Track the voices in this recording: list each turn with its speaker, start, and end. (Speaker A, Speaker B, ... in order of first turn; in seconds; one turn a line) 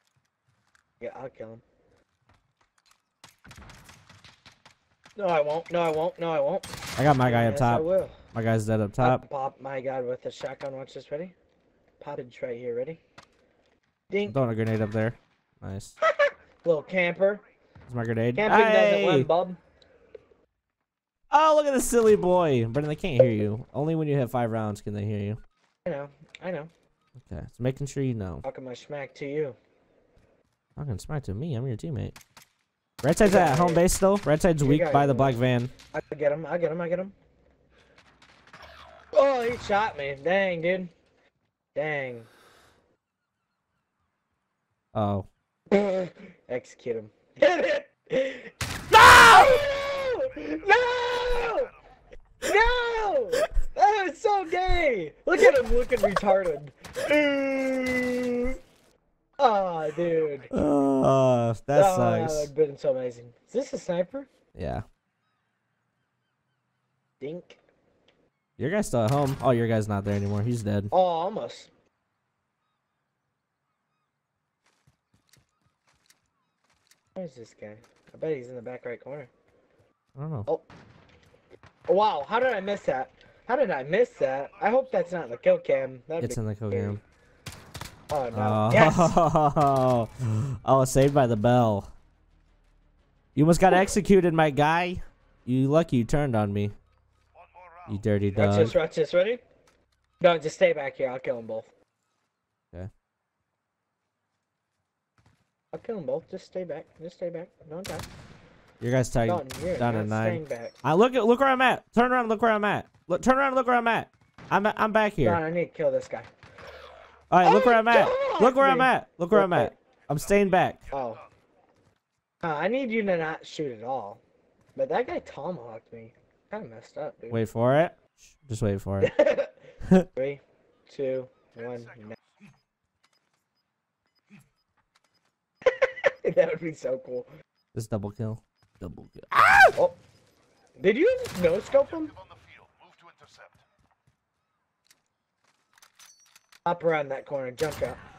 Speaker A: 1.0-1.6
Speaker A: 5.2-8.2
Speaker B: 7.0-9.2
Speaker A: 9.0-11.3
Speaker A: 12.0-13.0
Speaker A: 14.1-14.3
Speaker B: 14.3-15.9
Speaker A: 16.1-17.4
Speaker B: 17.9-19.3
Speaker A: 18.3-19.6
Speaker B: 21.3-25.4
Speaker A: 25.8-26.7
Speaker B: 27.2-28.4
Speaker A: 28.4-29.6
Speaker B: 30.8-32.1
Speaker B: 33.0-35.7
Speaker A: 33.2-33.8
Speaker A: 34.6-35.4
Speaker A: 35.9-37.1
Speaker A: 39.1-40.9
Speaker A: 41.7-42.3
Speaker B: 44.9-45.3
Speaker A: 45.7-48.5
Speaker B: 48.9-49.6
Speaker A: 49.1-51.7
Speaker A: 52.4-58.6
Speaker A: 59.4-60.5
Speaker B: 60.5-62.5
Speaker A: 61.7-64.3
Speaker B: 64.5-64.8
Speaker A: 67.2-67.6
Speaker B: 68.6-70.9
Speaker A: 70.9-71.7
Speaker A: 77.2-79.3
Speaker B: 80.2-80.5
Speaker A: 81.9-86.9
Speaker B: 86.2-87.0
Speaker A: 88.1-89.1
Speaker B: 88.3-91.9
Speaker B: 93.3-96.8
Speaker B: 97.9-98.7
Speaker A: 98.3-99.4
Speaker A: 100.2-101.7
Speaker A: 105.7-108.0
Speaker B: 108.8-115.4
Speaker A: 109.2-110.7
Speaker A: 115.2-116.3
Speaker B: 117.3-120.8
Speaker A: 117.4-119.7
Speaker A: 120.9-121.2
Speaker A: 122.4-124.2
Speaker A: 124.8-127.4
Speaker B: 127.3-129.1
Speaker A: 129.0-129.5
Speaker A: 130.1-132.2
Speaker A: 135.8-137.3
Speaker B: 137.7-139.7
Speaker A: 140.8-142.1
Speaker A: 146.6-148.0